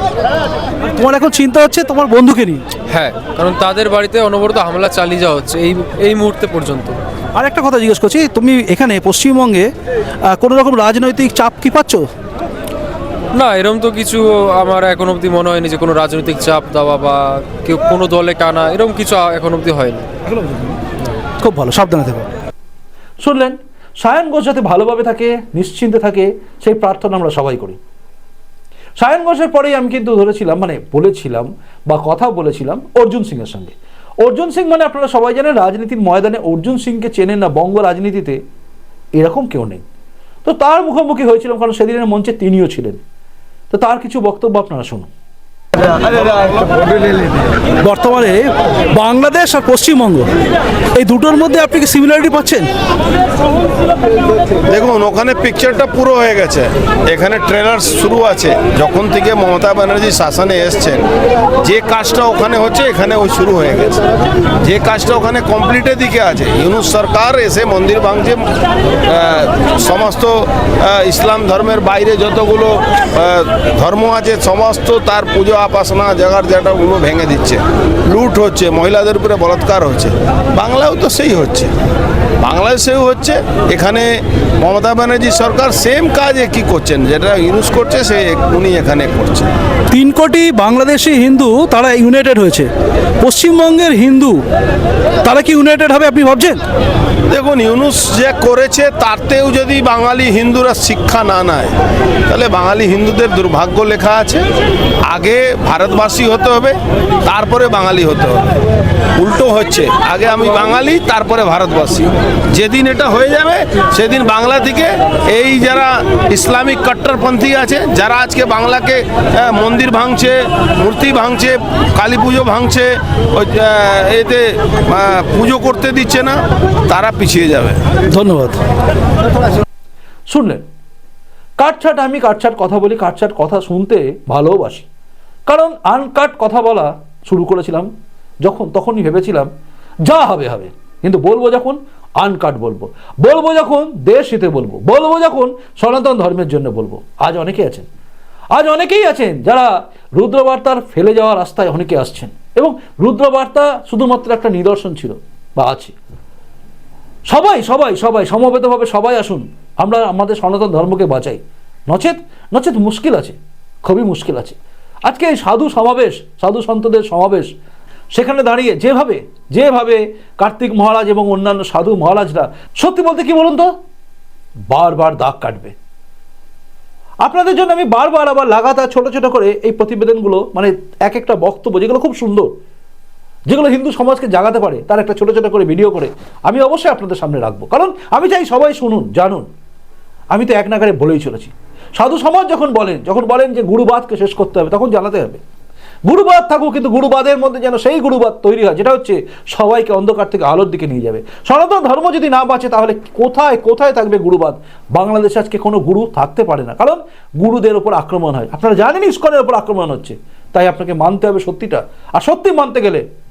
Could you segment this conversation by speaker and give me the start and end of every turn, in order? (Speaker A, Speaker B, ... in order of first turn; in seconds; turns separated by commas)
Speaker A: 1.0-2.6, Speaker B: 2.9-7.0, Speaker A: 7.3-9.7, Speaker A: 10.3-12.1, Speaker B: 13.3-20.1, Speaker A: 21.4-22.3, Speaker A: 23.2-27.8, Speaker A: 29.0-38.4, Speaker A: 39.1-39.8, Speaker A: 40.4-43.0, Speaker A: 43.7-45.1, Speaker A: 47.8-50.3, Speaker A: 50.9-52.7, Speaker C: 54.7-61.0, Speaker C: 61.6-64.0, Speaker C: 64.6-68.4, Speaker C: 69.1-81.7, Speaker C: 82.4-89.5, Speaker A: 89.9-92.7, Speaker A: 93.2-94.4, Speaker A: 95.2-96.6, Speaker C: 97.3-101.8, Speaker C: 102.3-104.4, Speaker C: 105.1-108.5, Speaker C: 109.2-127.8, Speaker A: 128.1-128.6, Speaker A: 130.3-130.6, Speaker A: 131.6-134.9, Speaker A: 135.5-137.9, Speaker A: 138.4-139.5, Speaker A: 140.0-147.8, Speaker A: 148.5-155.9, Speaker A: 157.3-167.5, Speaker A: 168.1-173.7, Speaker A: 174.7-175.7, Speaker A: 177.2-182.5, Speaker A: 183.5-189.5, Speaker A: 190.3-195.4, Speaker A: 196.1-213.1